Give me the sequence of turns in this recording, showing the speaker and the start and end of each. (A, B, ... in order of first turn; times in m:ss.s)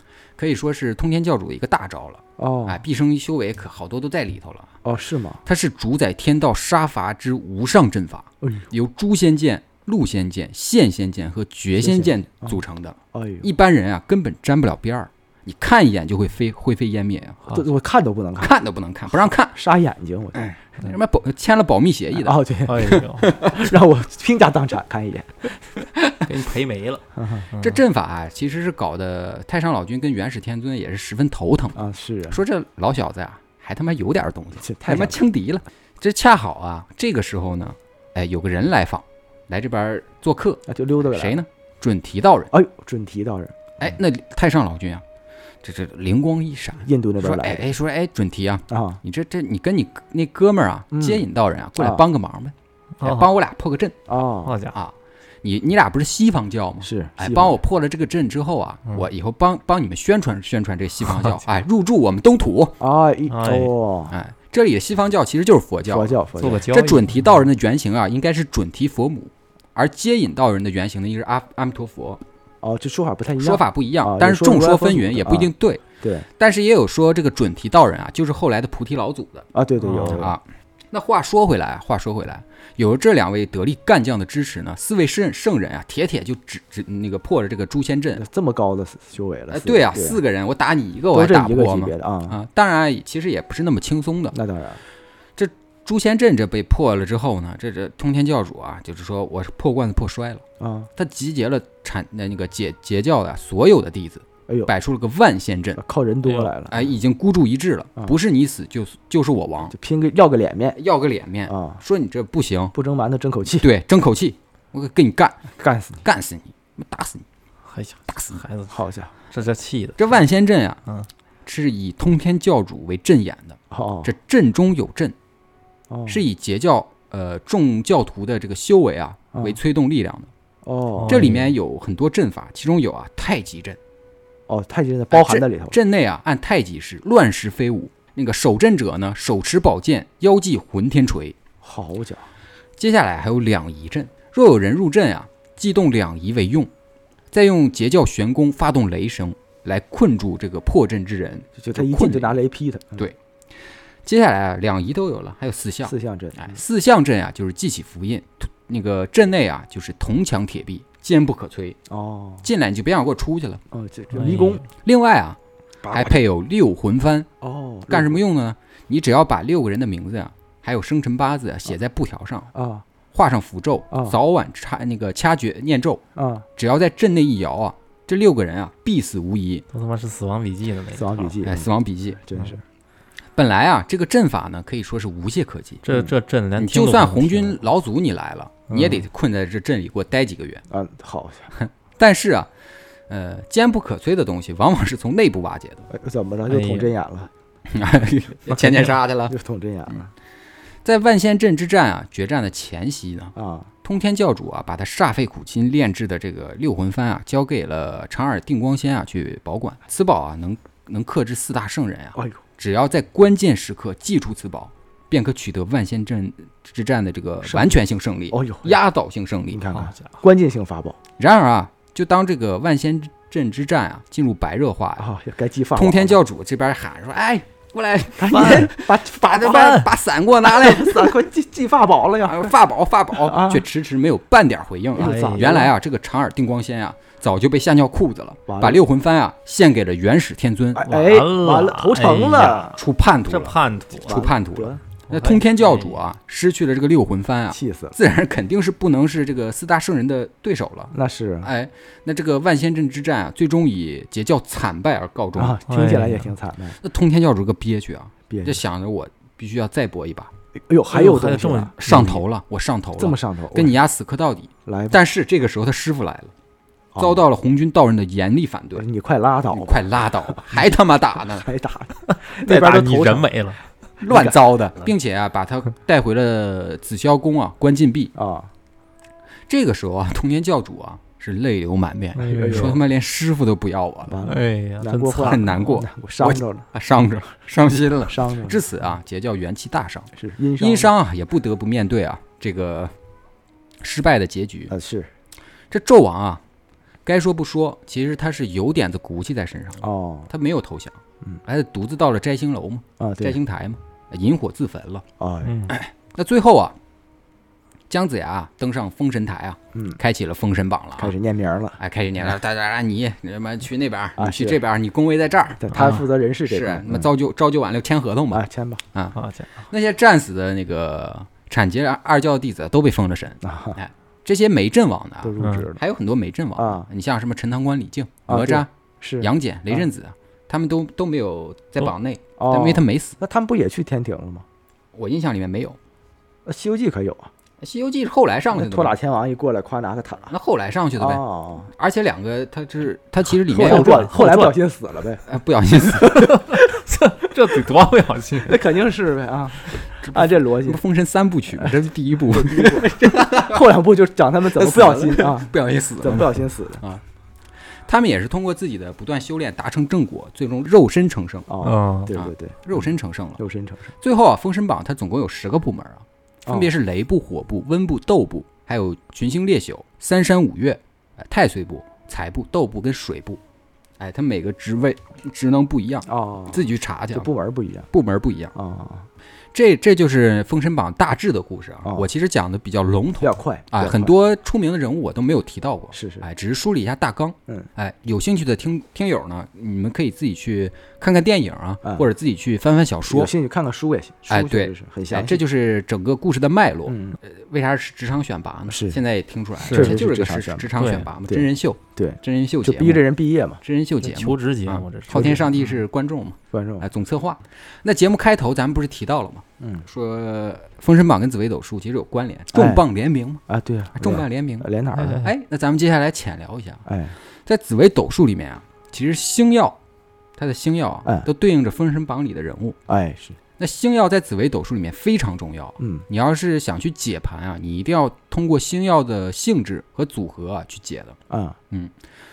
0:00.4-0:04.7 A
0:02.4-0:02.8 B
0:04.8-0:05.4 B
0:05.5-0:17.4 A
0:08.4-0:08.7 B
0:11.8-0:12.6 B
0:13.1-0:13.5 B
0:17.5-0:18.5 B
0:18.4-0:19.6 A
0:19.3-0:20.5 B
0:20.4-0:22.4 A
0:22.1-0:25.5 B
0:22.7-0:23.3 C
0:23.2-0:23.6 A
0:26.0-0:26.2 A
0:26.2-0:27.8 C
0:27.2-0:27.5 B
0:27.6-0:31.8 A
0:31.8-0:32.4 B
0:32.3-0:42.5 A
0:34.6-0:35.2 B
0:40.7-0:41.4 B
0:42.5-0:43.6 B
0:43.8-0:45.0 A
0:45.6-0:54.0 A
0:46.8-0:47.7 B
0:48.7-0:49.0 B
0:50.9-0:51.2 B
0:51.8-0:52.0 B
0:53.0-0:53.3 C
0:54.1-0:54.6 B
0:54.5-0:54.8 C
0:54.7-1:02.8 A
0:56.8-0:57.6 B
1:01.1-1:01.4 C
1:02.8-1:04.2 B
1:03.3-1:03.7 C
1:04.1-1:12.2 A
1:05.9-1:06.7 B
1:06.4-1:07.3 C
1:12.6-1:16.3 B
1:13.4-1:15.8 A
1:16.4-1:19.5 A
1:19.5-1:20.4 B
1:19.8-1:20.3 C
1:20.1-1:28.2 A
1:28.2-1:30.2 B
1:29.5-1:34.4 A
1:31.1-1:32.4 B
1:34.3-1:34.8 B
1:35.4-1:40.4 A
1:40.6-1:40.9 B
1:41.0-1:45.8 A
1:45.8-1:46.9 B
1:46.7-1:49.7 A
1:49.7-1:50.8 B
1:50.8-1:52.8 A
1:51.5-1:51.8 B
1:52.8-1:53.7 B
1:53.6-1:55.4 A
1:55.6-1:56.0 B
1:56.0-1:57.2 A
1:57.7-1:58.7 C
1:58.7-1:59.1 B
1:59.3-2:00.1 C
2:00.0-2:00.8 A
2:01.5-2:05.2 A
2:03.7-2:04.1 B
2:05.9-2:06.2 B
2:06.1-2:10.3 A
2:10.6-2:11.4 B
2:11.0-2:11.5 C
2:11.1-2:13.8 A
2:14.5-2:15.8 B
2:15.1-2:21.4 A
2:21.6-2:22.3 B
2:22.8-2:26.7 A
2:27.3-2:32.4 A
2:31.6-2:33.1 B
2:34.0-2:41.8 A
2:35.8-2:36.6 B
2:41.9-2:42.5 B
2:42.4-2:43.6 A
2:43.7-2:44.6 B
2:44.1-2:44.6 C
2:44.8-2:45.4 A
2:45.8-2:46.2 B
2:45.9-2:47.3 A
2:47.4-2:48.2 B
2:47.9-2:52.5 A
2:52.5-2:52.8 B
2:53.1-2:56.0 A
2:53.9-2:54.2 B
2:56.2-2:56.5 B
2:56.6-2:59.6 A
2:59.7-3:01.2 C
3:00.9-3:01.7 B
3:01.4-3:02.2 A
3:02.2-3:02.6 B
3:03.4-3:05.8 A
3:05.8-3:07.6 C
3:06.6-3:10.6 A
3:08.7-3:09.0 C
3:10.7-3:11.5 B
3:11.6-3:12.5 A
3:13.1-3:15.9 A
3:15.9-3:17.3 B
3:16.5-3:16.9 C
3:17.7-3:19.3 A
3:19.3-3:20.1 B
3:20.8-3:23.3 A
3:23.4-3:23.7 B
3:23.8-3:39.7 A
3:32.2-3:32.4 B
3:37.4-3:37.7 B
3:38.3-3:38.8 B
3:39.5-3:41.0 B
3:39.7-3:40.0 C
3:41.2-3:45.1 A
3:45.0-3:46.2 B
3:45.7-3:51.2 A
3:48.2-3:49.9 B
3:48.3-3:48.7 C
3:50.4-3:52.6 B
3:52.2-4:00.8 A
3:53.2-3:53.6 B
3:55.0-3:55.7 B
3:55.0-3:55.5 C
3:58.5-3:58.8 B
4:00.8-4:02.8 B
4:00.8-4:02.7 C
4:02.7-4:15.6 A
4:03.2-4:04.3 C
4:04.0-4:04.8 B
4:05.1-4:06.0 C
4:07.5-4:08.0 B
4:10.9-4:11.5 B
4:15.4-4:16.8 B
4:15.7-4:16.3 C
4:16.8-4:20.3 A
4:18.3-4:18.6 B
4:20.7-4:21.8 B
4:20.9-4:22.2 C
4:21.8-4:26.3 A
4:23.0-4:23.8 B
4:24.7-4:25.0 B
4:26.9-4:27.2 B
4:27.0-4:28.8 A
4:28.8-4:30.7 B
4:29.5-4:31.5 A
4:31.2-4:33.3 B
4:32.4-4:33.6 C
4:34.0-4:38.1 A
4:34.0-4:34.4 B
4:38.2-4:38.5 B
4:39.5-4:44.2 A
4:42.2-4:42.8 C
4:42.3-4:42.8 B
4:44.1-4:46.7 B
4:44.2-4:45.8 C
4:45.2-4:52.9 A
4:48.1-4:48.6 B
4:50.2-4:50.9 B
4:53.8-4:54.7 A
4:54.7-4:55.1 B
4:55.7-4:56.4 A
4:57.0-5:05.0 A
4:59.8-5:00.3 B
5:03.0-5:03.4 B
5:05.2-5:05.6 B
5:05.4-5:05.8 C
5:05.7-5:06.8 A
5:07.9-5:11.2 A
5:09.7-5:10.0 B
5:11.0-5:11.8 B
5:11.8-5:18.4 A
5:14.2-5:14.6 B
5:15.6-5:17.1 B
5:15.7-5:16.0 C
5:18.3-5:18.8 B
5:19.2-5:19.6 C
5:19.7-5:28.7 A
5:23.4-5:23.8 B
5:25.2-5:25.8 B
5:25.4-5:25.7 C
5:26.6-5:26.9 B
5:28.3-5:29.9 B
5:29.2-5:33.2 A
5:32.4-5:34.4 B
5:34.9-5:35.8 A
5:36.5-5:37.3 B
5:37.6-5:39.0 A
5:38.5-5:40.3 B
5:40.3-5:44.1 A
5:41.0-5:41.7 B
5:43.5-5:44.6 C
5:43.5-5:45.2 B
5:45.3-5:46.4 A
5:46.1-5:48.6 C
5:48.4-5:50.8 B
5:50.0-5:53.7 A
5:51.6-5:56.8 B
5:54.5-5:57.0 A
5:57.9-6:01.5 A
6:01.5-6:03.9 B
6:01.6-6:02.1 C
6:02.1-6:03.4 A
6:04.0-6:13.4 A
6:06.5-6:06.7 B
6:14.0-6:17.3 A
6:16.1-6:17.9 B
6:17.9-6:18.5 A
6:18.5-6:19.1 B
6:19.5-6:33.3 A
6:23.2-6:24.2 B
6:25.9-6:26.3 B
6:33.1-6:35.4 B
6:34.3-6:43.0 A
6:36.9-6:37.2 B
6:38.7-6:39.0 B
6:39.6-6:40.0 C
6:39.7-6:40.7 B
6:40.8-6:41.1 C
6:41.3-6:43.6 B
6:43.6-6:53.4 A
6:44.0-6:45.6 C
6:45.1-6:45.4 B
6:46.5-6:46.9 B
6:49.6-6:49.9 B
6:52.5-6:52.8 B
6:53.5-6:55.2 B
6:54.0-6:56.8 A
6:55.0-6:55.3 C
6:56.9-6:57.2 B
6:57.5-6:59.8 A
7:00.4-7:02.8 A
7:02.9-7:03.4 B
7:03.6-7:11.2 A
7:05.8-7:06.0 B
7:11.3-7:11.6 B